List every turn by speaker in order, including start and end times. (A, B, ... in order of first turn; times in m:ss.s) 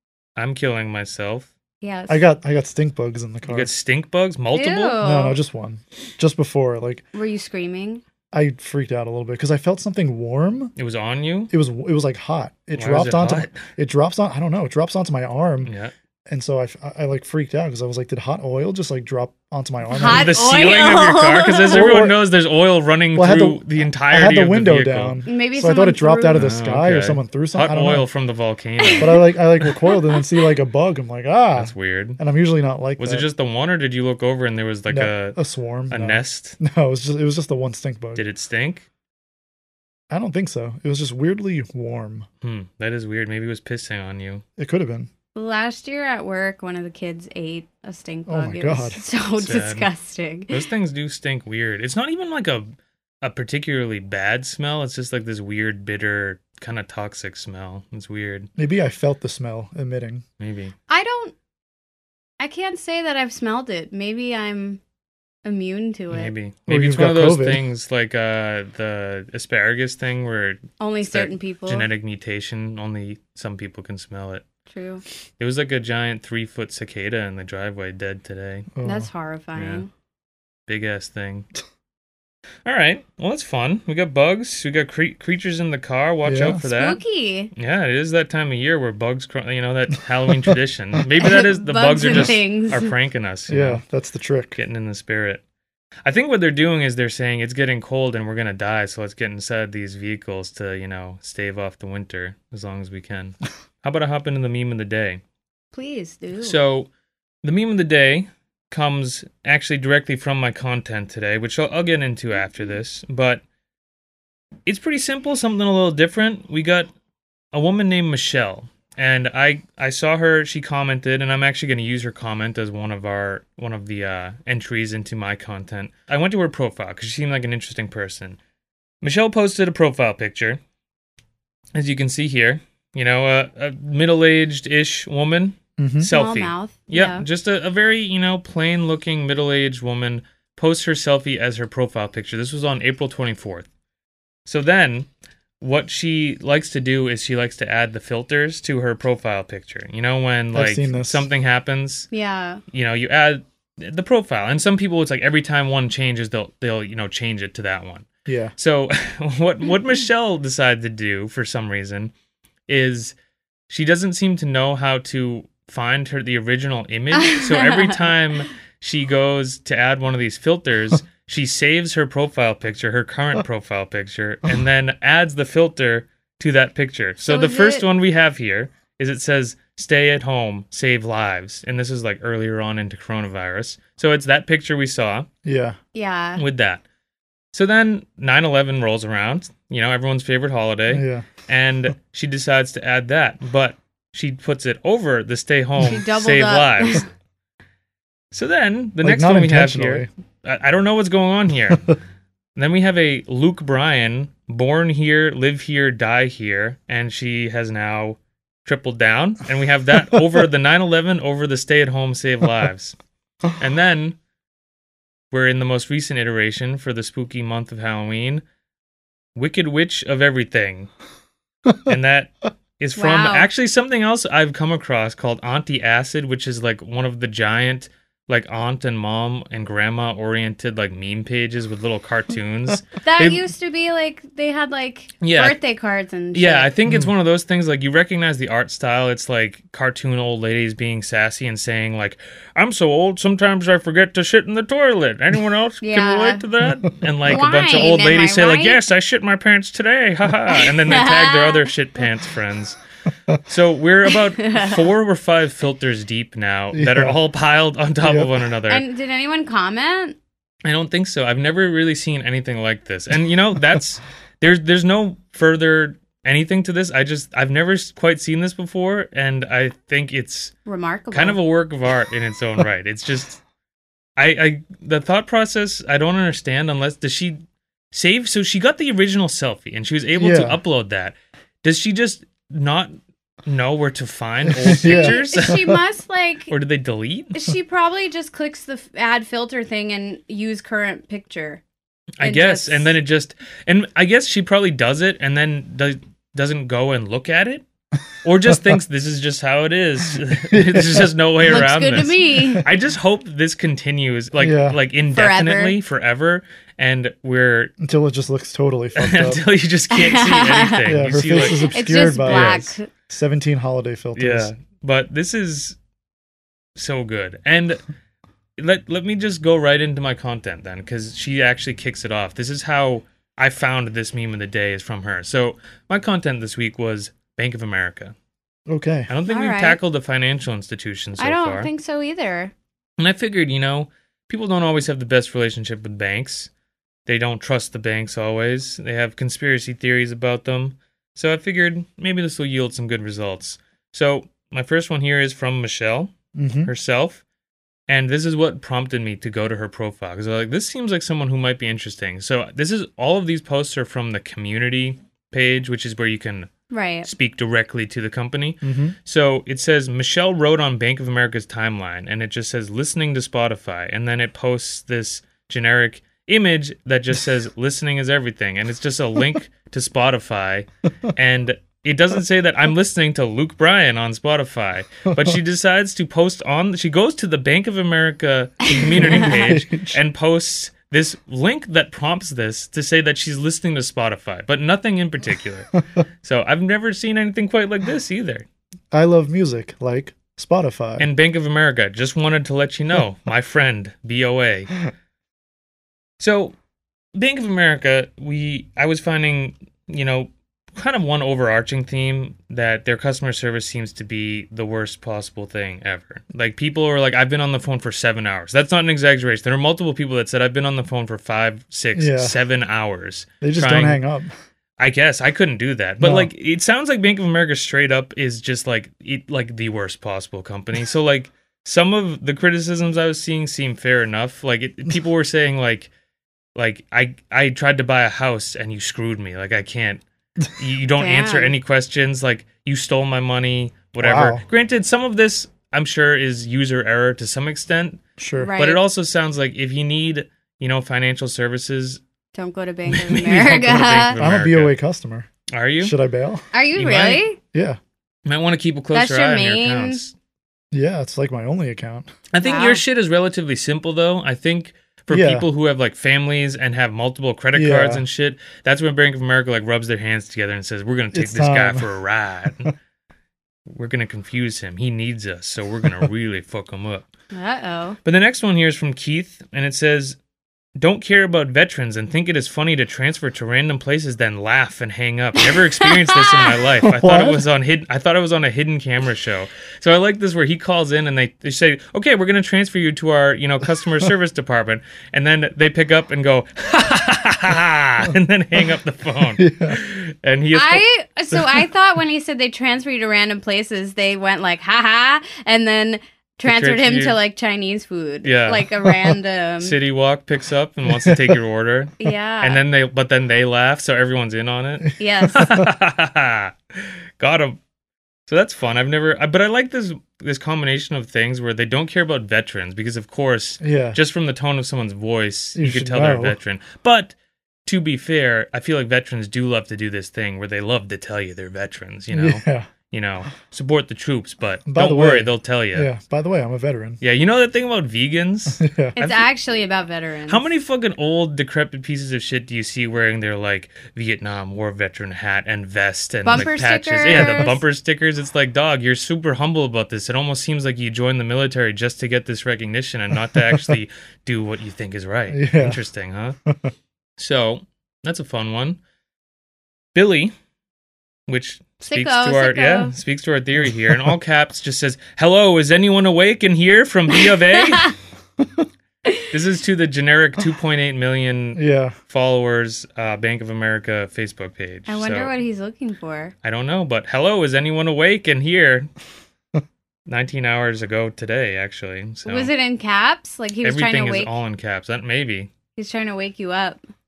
0:00.4-0:01.5 A
0:01.8-0:02.2 B
0:02.1-0:03.7 C
0:03.5-0:05.0 A
0:04.5-0:05.4 B
0:05.0-0:07.0 C
0:07.1-0:08.0 B
0:08.3-0:10.7 C
0:10.8-0:11.5 A
0:11.5-0:15.7 C
0:12.8-0:13.6 A
0:15.6-0:15.9 A
0:16.3-0:20.3 C
0:19.9-0:22.0 B
0:20.0-0:25.2 A
0:21.7-0:22.2 C
0:23.1-0:28.0 C
0:25.2-0:26.4 B
0:26.3-0:29.2 A
0:28.8-0:29.2 B
0:29.0-0:33.2 C
0:29.8-0:30.2 B
0:31.6-0:32.2 A
0:33.0-0:35.4 A
0:34.9-0:38.2 C
0:35.9-0:36.6 A
0:38.2-0:38.8 A
0:40.1-0:42.2 C
0:42.4-0:44.4 A
0:44.6-0:45.1 C
0:45.3-0:50.6 B
0:48.3-0:49.0 C
0:49.4-0:49.9 A
0:50.5-0:58.5 A
0:58.6-1:00.2 C
1:00.4-1:00.7 A
1:00.9-1:01.3 B
1:02.4-1:04.8 B
1:05.4-1:06.3 B
1:06.1-1:14.4 A
1:06.7-1:07.6 C
1:10.8-1:11.9 B
1:14.7-1:15.0 B
1:15.4-1:18.7 A
1:18.7-1:19.1 C
1:18.8-1:19.9 B
1:19.6-1:19.8 A
1:20.7-1:21.5 A
1:22.6-1:27.0 A
1:26.2-1:26.6 C
1:26.6-1:27.5 B
1:27.5-1:33.8 A
1:31.2-1:32.9 B
1:33.5-1:34.6 C
1:34.6-1:35.4 A
1:36.0-1:45.2 A
1:45.7-1:46.6 B
1:46.4-1:46.9 A
1:47.4-1:53.4 A
1:54.6-1:56.9 A
1:57.5-2:08.4 A
2:09.0-2:10.6 A
2:11.7-2:23.6 A
2:15.8-2:16.1 C
2:16.1-2:17.2 B
2:24.4-2:25.1 A
2:25.6-2:32.1 A
2:30.5-2:31.2 C
2:32.1-2:32.6 B
2:32.7-2:42.1 A
2:38.3-2:38.5 C
2:42.7-2:43.1 A
2:43.7-3:05.3 A
2:47.1-2:48.1 B
2:57.2-2:57.8 B
3:05.4-3:05.8 C
3:05.9-3:06.4 B
3:06.4-3:06.8 A
3:07.5-3:17.0 A
3:10.9-3:11.2 C
3:15.8-3:17.1 B
3:18.3-3:21.9 A
3:19.0-3:20.1 C
3:22.6-3:33.0 A
3:33.5-3:34.2 A
3:35.3-3:38.4 A
3:39.3-3:40.9 A
3:41.8-3:53.4 A
3:43.0-3:43.5 B
3:53.0-3:56.7 B
3:55.2-3:55.6 A
3:56.3-4:12.8 A
4:05.8-4:06.4 B
4:06.6-4:06.9 C
4:07.2-4:08.8 B
4:10.5-4:11.7 B
4:13.4-4:18.8 A
4:14.4-4:14.8 B
4:16.7-4:17.2 C
4:18.0-4:18.3 C
4:18.7-4:20.2 B
4:20.6-4:30.5 A
4:30.6-4:31.4 B
4:31.1-4:33.4 A
4:34.2-4:37.4 A
4:37.9-4:42.9 A
4:40.2-4:40.6 C
4:43.4-4:45.7 A
4:44.4-4:45.7 C
4:44.8-4:46.5 B
4:46.5-4:47.4 A
4:47.3-4:51.6 B
4:52.2-4:57.6 A
4:52.2-4:52.9 B
4:58.2-5:07.7 A
5:00.5-5:01.1 C
5:01.4-5:02.6 B
5:04.4-5:04.8 C
5:05.1-5:05.8 B
5:07.8-5:09.4 C
5:09.0-5:11.7 A
5:09.9-5:12.9 B
5:10.8-5:14.5 C
5:12.2-5:12.6 A
5:14.2-5:15.8 A
5:16.8-5:17.8 A
5:18.6-5:28.1 A
5:28.7-5:29.1 C
5:29.1-5:31.7 A
5:29.3-5:29.8 B
5:31.2-5:32.5 B
5:33.0-5:36.5 A
5:37.0-5:46.1 A
5:46.4-5:46.7 C
5:46.6-5:47.2 A
5:47.9-5:56.5 A
5:56.7-5:57.1 B
5:57.0-6:28.4 A
5:58.6-5:58.9 C
6:18.7-6:20.0 C
6:28.9-6:31.1 C
6:31.0-6:34.8 A
6:36.2-6:36.5 A
6:37.1-6:54.0 A
6:51.9-6:52.4 C
6:53.4-6:54.3 C
6:54.8-7:05.9 A
6:56.0-6:56.3 C
7:06.5-7:10.0 A
7:10.5-7:18.0 A
7:11.0-7:11.5 B
7:14.0-7:14.4 C
7:18.2-7:18.5 C
7:18.4-7:18.8 B
7:18.6-7:22.0 A
7:22.3-7:24.2 B
7:22.9-7:24.7 A
7:24.2-7:25.3 C
7:25.5-7:25.9 A
7:25.8-7:26.4 C
7:26.5-7:27.4 B
7:26.7-7:27.2 A
7:27.5-7:27.8 C
7:28.2-7:30.1 A
7:28.9-7:30.0 B
7:30.7-7:32.1 C
7:32.3-7:42.7 A
7:32.4-7:32.8 B
7:35.1-7:35.5 C
7:37.5-7:38.0 C
7:41.1-7:41.9 C
7:43.7-7:47.0 A
7:47.3-7:48.0 B
7:48.0-7:50.2 A
7:50.8-8:10.8 A
7:56.8-7:57.4 C
8:09.4-8:09.8 C
8:10.5-8:19.8 B
8:16.4-8:17.2 A
8:18.2-8:18.7 A
8:19.6-8:26.5 A
8:20.9-8:21.2 C
8:22.0-8:22.6 B
8:25.0-8:25.6 B
8:27.2-8:27.6 A
8:28.3-8:37.1 A
8:33.6-8:34.0 C
8:35.6-8:36.4 C
8:37.6-8:45.9 A
8:42.1-8:42.7 C
8:44.7-8:47.0 C
8:47.0-8:49.2 A
8:48.6-8:49.0 C
8:49.0-8:50.4 B
8:50.3-9:06.4 A
8:56.2-8:57.6 B
9:05.3-9:05.8 C
9:07.2-9:08.8 A
9:09.9-9:10.3 A
9:11.3-9:17.9 A
9:11.8-9:12.9 B
9:18.4-9:18.6 C
9:19.3-9:25.3 A
9:21.6-9:21.9 C
9:24.9-9:26.3 B
9:26.4-9:28.9 A
9:30.1-9:32.5 A
9:32.2-9:34.3 B
9:33.6-9:35.5 A
9:35.8-9:36.8 B